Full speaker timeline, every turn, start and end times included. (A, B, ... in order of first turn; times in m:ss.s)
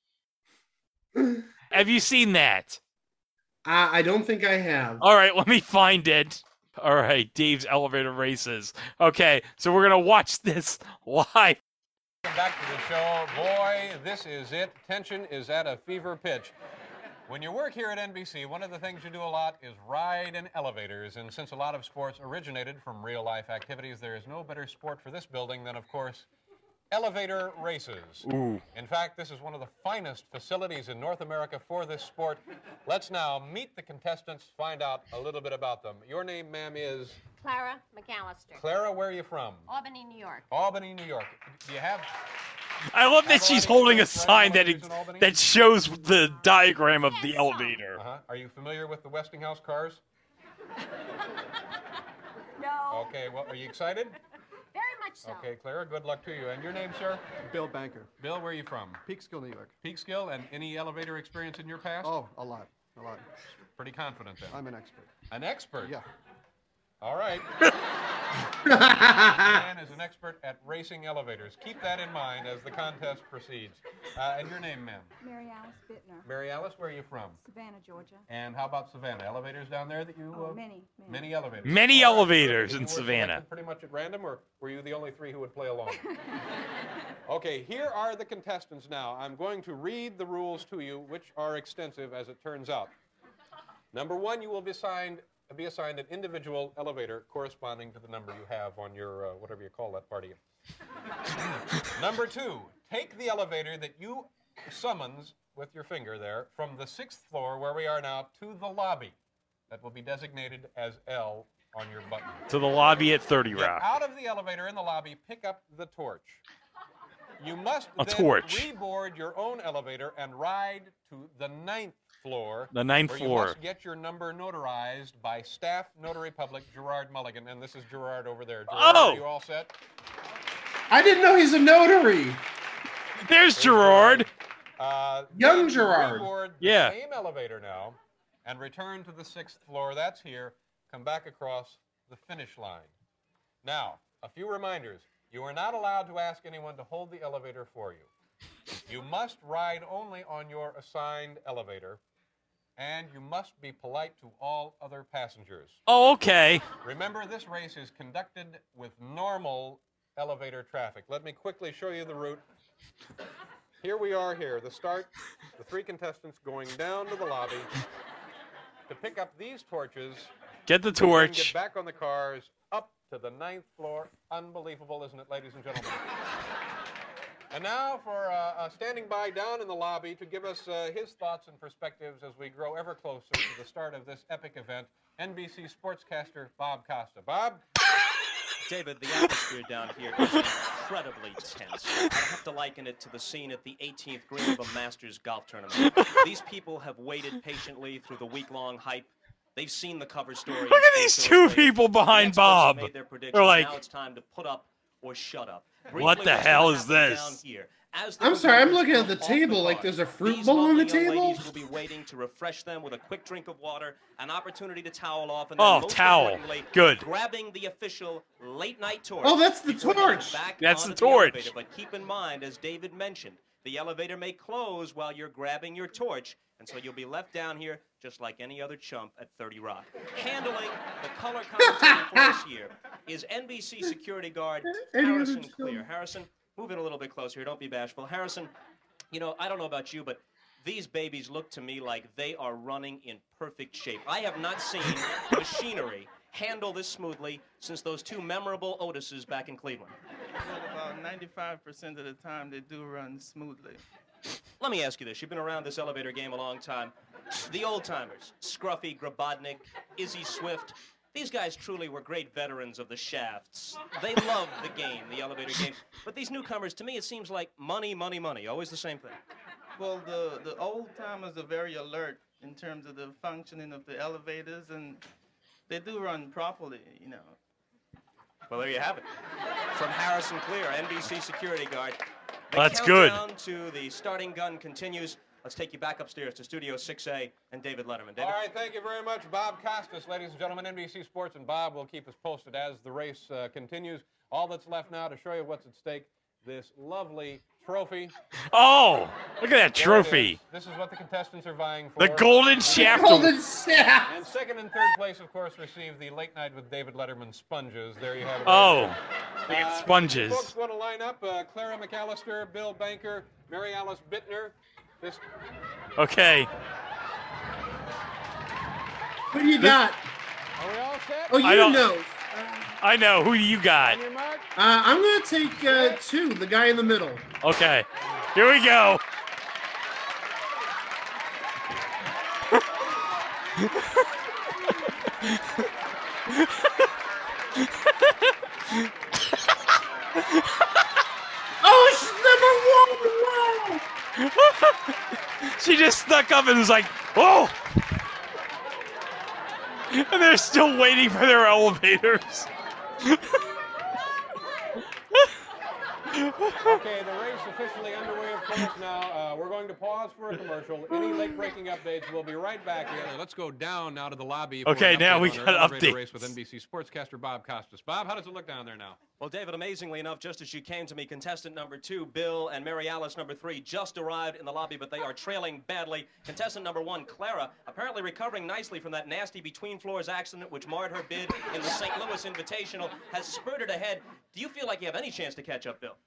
0:01.1-0:01.5 A
0:01.7-0:02.8 B
0:03.6-0:05.0 A
0:05.0-0:11.6 B
0:12.2-0:16.5 C
0:17.3-0:26.3 C
0:26.9-0:37.2 C
0:28.2-0:28.6 B
0:37.4-0:38.8 D
0:38.6-0:39.7 C
0:39.7-0:40.5 D
0:40.5-0:42.1 C
0:42.9-0:48.0 B
0:43.2-0:45.3 C
0:47.1-0:47.8 D
0:47.9-0:50.0 C
0:52.6-0:53.5 D
0:52.9-0:54.2 C
0:54.7-0:55.5 D
0:55.2-0:57.2 C
0:57.5-0:58.1 E
0:58.2-0:59.0 C
0:59.0-0:59.7 E
0:59.8-1:02.1 C
1:02.0-1:03.2 E
1:03.8-1:04.6 C
1:04.5-1:05.1 E
1:05.3-1:06.0 C
1:07.0-1:07.5 C
1:08.6-1:09.5 A
1:09.3-1:15.1 C
1:15.2-1:16.3 F
1:16.2-1:17.4 C
1:17.4-1:18.3 F
1:18.3-1:26.0 C
1:20.3-1:21.3 F
1:21.6-1:23.4 B
1:27.3-1:32.9 C
1:33.9-1:40.4 C
1:41.3-1:49.2 C
1:49.7-1:52.4 C
1:52.5-1:53.9 B
1:53.5-1:56.4 C
1:57.4-2:09.7 C
1:58.0-1:58.7 B
2:02.7-2:03.6 B
2:08.7-2:09.2 B
2:10.9-2:12.4 A
2:13.2-2:14.3 B
2:13.6-2:22.9 C
2:15.3-2:16.3 A
2:16.6-2:16.9 B
2:23.6-2:28.1 C
2:28.9-2:32.0 C
2:32.8-2:35.8 C
2:35.9-2:36.6 B
2:36.8-2:42.4 C
2:43.8-2:47.7 C
2:48.9-2:50.3 C
2:50.7-2:51.5 B
2:51.0-2:56.1 C
2:57.5-3:07.6 C
3:08.6-3:58.5 G
3:20.6-3:23.8 B
3:25.9-3:27.4 B
3:28.2-3:31.5 A
3:35.6-3:37.0 B
3:39.2-3:40.4 A
3:40.6-3:41.5 B
3:51.6-3:52.4 A
3:54.7-3:55.8 A
3:59.1-4:10.0 G
4:10.4-4:13.8 H
4:14.6-4:16.9 G
4:17.5-4:29.2 G
4:29.8-4:35.0 H
4:35.7-4:37.4 H
4:38.5-4:39.0 G
4:39.7-4:42.0 G
4:42.5-4:48.4 G
4:42.5-4:43.2 B
4:48.2-4:58.1 C
4:58.5-5:00.4 B
4:59.7-5:03.1 C
5:02.0-5:03.3 B
5:02.7-5:04.2 A
5:04.1-5:15.2 C
5:08.4-5:10.5 B
5:16.0-5:16.5 B
5:19.3-5:20.0 A
5:20.6-5:21.5 C
5:21.3-5:22.7 A
5:21.4-5:21.9 B
5:22.8-5:24.0 B
5:23.8-5:24.5 C
5:24.6-5:27.2 A
5:27.4-5:29.0 B
5:36.3-5:36.8 B
5:37.6-5:38.1 B
5:41.6-5:43.8 A
5:44.2-5:44.9 B
5:45.5-5:47.6 B
5:49.9-5:52.5 B
5:56.1-5:56.7 B
5:56.6-6:09.0 C
6:01.0-6:01.2 B
6:04.6-6:06.3 B
6:09.2-6:26.0 G